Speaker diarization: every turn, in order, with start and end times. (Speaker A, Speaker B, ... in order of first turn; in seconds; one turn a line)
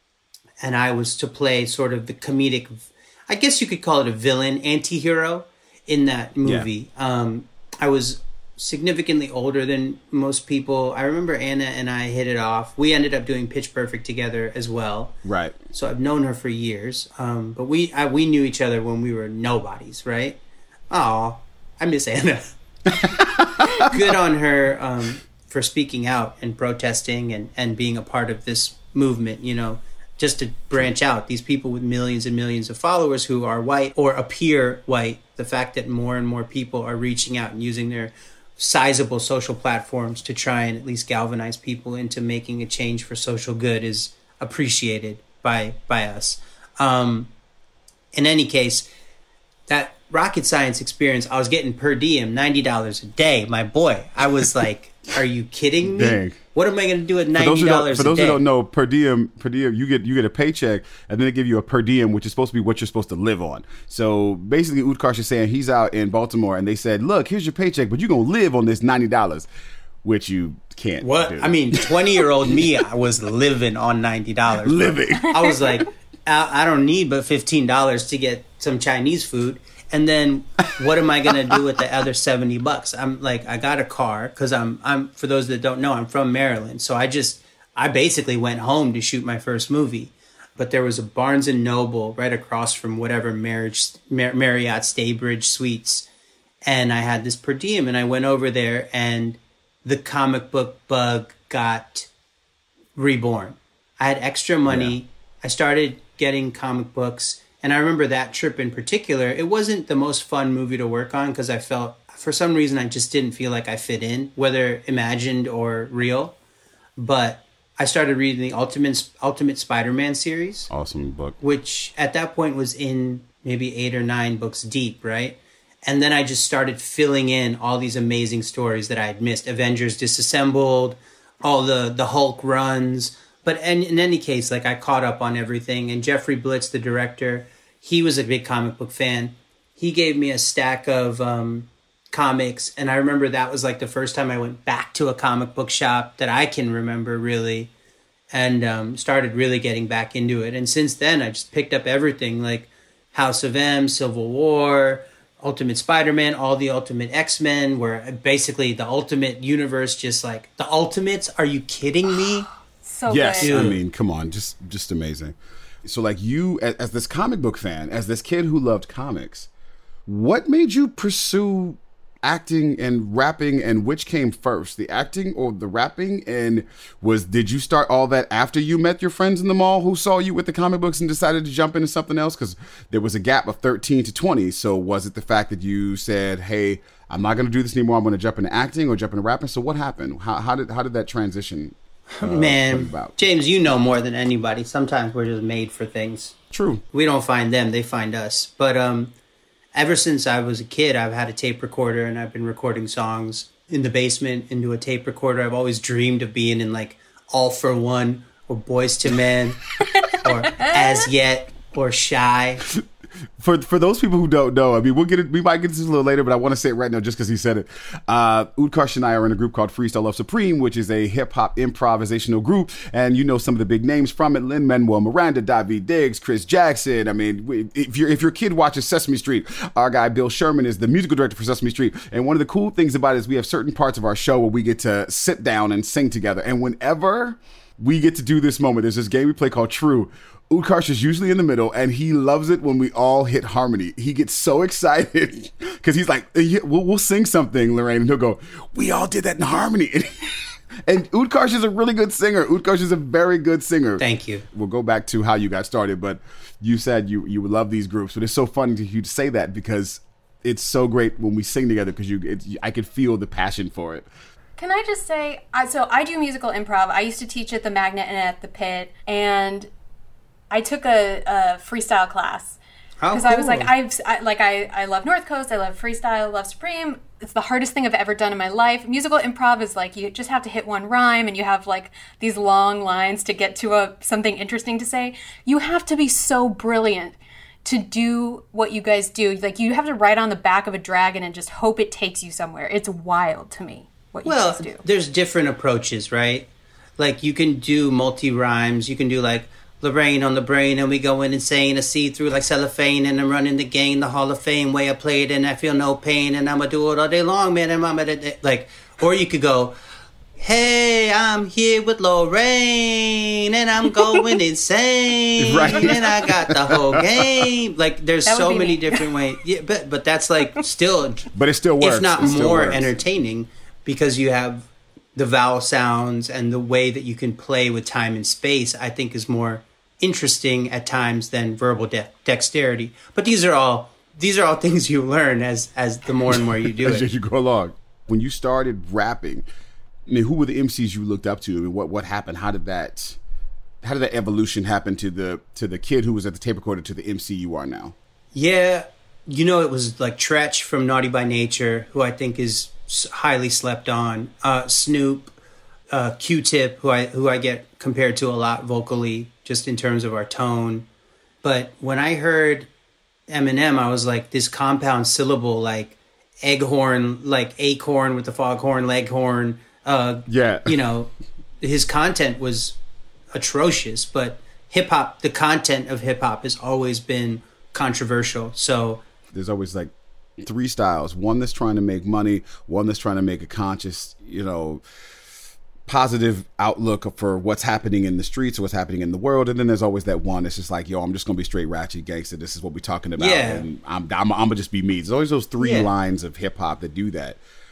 Speaker A: 0.6-15.2
Speaker B: 15.2-15.6
Speaker A: 15.7-47.3
Speaker B: 23.0-23.8
Speaker A: 48.1-48.9
Speaker A: 49.7-58.4
Speaker B: 55.8-56.4
Speaker B: 57.4-69.5
Speaker B: 70.0-72.6
Speaker A: 71.0-96.1
Speaker B: 74.6-75.8
Speaker A: 96.6-102.1
Speaker A: 102.9-116.3
Speaker B: 104.7-105.0
Speaker A: 117.0-120.7
Speaker B: 120.7-121.4
Speaker A: 121.4-147.7
Speaker A: 148.3-162.5
Speaker C: 162.8-163.7
Speaker B: 163.1-169.5
Speaker A: 163.4-163.8
Speaker B: 170.1-193.2
Speaker A: 192.1-196.3
Speaker B: 196.5-196.8
Speaker A: 196.9-199.1
Speaker A: 199.7-212.6
Speaker B: 213.4-264.1
Speaker A: 254.0-254.4
Speaker C: 264.6-269.7
Speaker C: 270.5-272.6
Speaker A: 273.0-273.7
Speaker C: 273.1-294.8
Speaker A: 294.2-309.7
Speaker A: 310.4-321.3
Speaker B: 315.4-317.5
Speaker C: 318.2-319.1
Speaker B: 321.3-322.9
Speaker A: 321.8-337.0
Speaker B: 336.3-339.4
Speaker B: 340.1-343.2
Speaker B: 343.8-347.9
Speaker A: 348.3-355.3
Speaker A: 355.9-360.9
Speaker A: 361.4-362.7
Speaker A: 363.3-372.8
Speaker B: 370.3-370.8
Speaker A: 373.3-379.0
Speaker B: 379.3-384.8
Speaker B: 385.9-397.4
Speaker A: 393.2-393.6
Speaker A: 395.6-395.9